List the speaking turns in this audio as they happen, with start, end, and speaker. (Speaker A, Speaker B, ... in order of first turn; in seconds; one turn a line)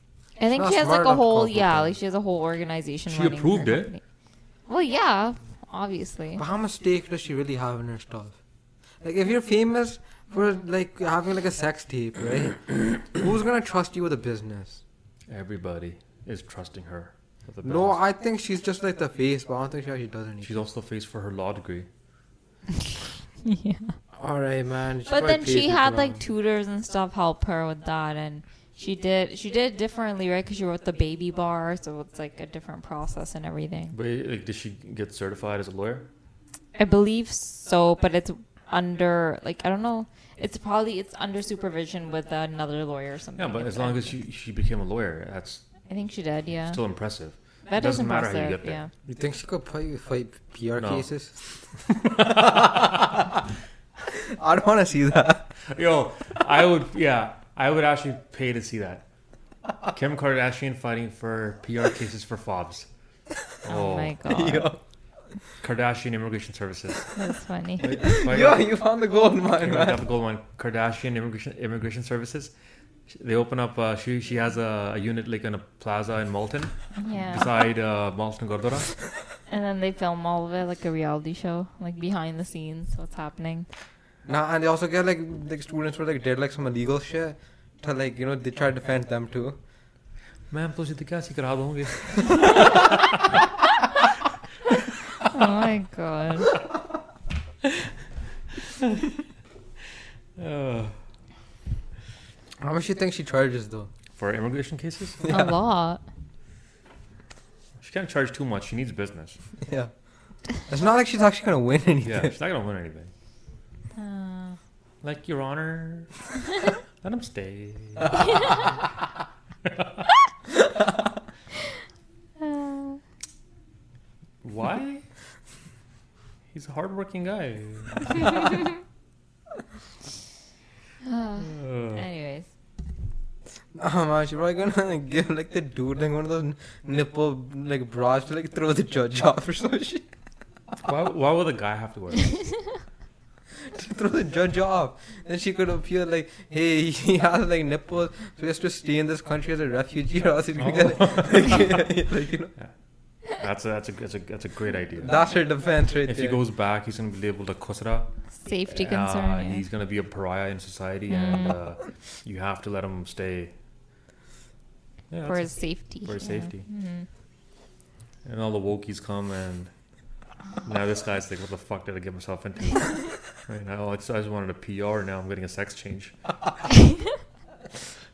Speaker A: 0.4-4.0
Speaker B: 0.5-1.9
Speaker C: 3.1-3.9
Speaker A: 4.7-6.4
Speaker B: 6.4-8.3
Speaker B: 9.0-14.8
Speaker C: 15.3-18.0
Speaker B: 17.6-20.6
Speaker C: 20.4-21.9
Speaker A: 23.4-24.0
Speaker B: 24.1-26.2
Speaker A: 25.1-33.9
Speaker C: 33.9-36.1
Speaker A: 36.7-44.1
Speaker C: 43.4-45.6
Speaker A: 45.9-46.8
Speaker C: 46.7-48.8
Speaker A: 47.6-48.9
Speaker B: 49.1-51.4
Speaker C: 50.8-51.1
Speaker C: 52.0-53.1
Speaker B: 52.0-53.2
Speaker B: 54.1-55.5
Speaker C: 55.7-59.0
Speaker C: 59.8-62.9
Speaker C: 63.6-64.2
Speaker A: 63.7-64.7
Speaker B: 64.2-64.8
Speaker C: 65.6-67.1
Speaker A: 67.1-68.0
Speaker C: 67.8-68.7
Speaker B: 67.8-70.0
Speaker C: 69.6-72.5
Speaker C: 73.1-79.0
Speaker A: 77.0-77.5
Speaker A: 79.5-83.7
Speaker B: 84.2-89.6
Speaker C: 90.5-93.4
Speaker A: 95.3-96.5
Speaker C: 98.8-99.0
Speaker C: 100.4-101.0
Speaker B: 102.6-103.9
Speaker C: 104.2-105.3
Speaker B: 105.2-105.5
Speaker A: 105.3-106.0
Speaker C: 107.8-109.4
Speaker B: 109.6-109.9
Speaker B: 110.5-112.3
Speaker C: 112.0-113.1
Speaker A: 113.9-114.6
Speaker C: 115.0-116.2
Speaker C: 117.0-118.7
Speaker A: 118.2-118.6
Speaker C: 119.7-119.9
Speaker A: 122.4-123.0
Speaker C: 124.4-125.0
Speaker C: 126.5-128.4
Speaker A: 131.0-132.5
Speaker C: 131.5-132.0
Speaker B: 133.7-140.1
Speaker C: 140.8-142.4
Speaker B: 143.6-152.5
Speaker C: 150.6-151.8
Speaker C: 153.2-155.2
Speaker B: 155.0-156.4
Speaker C: 156.1-163.5
Speaker A: 158.3-159.6
Speaker A: 161.1-161.6
Speaker C: 165.1-166.7
Speaker A: 165.2-167.1
Speaker C: 168.2-169.7
Speaker C: 170.6-176.4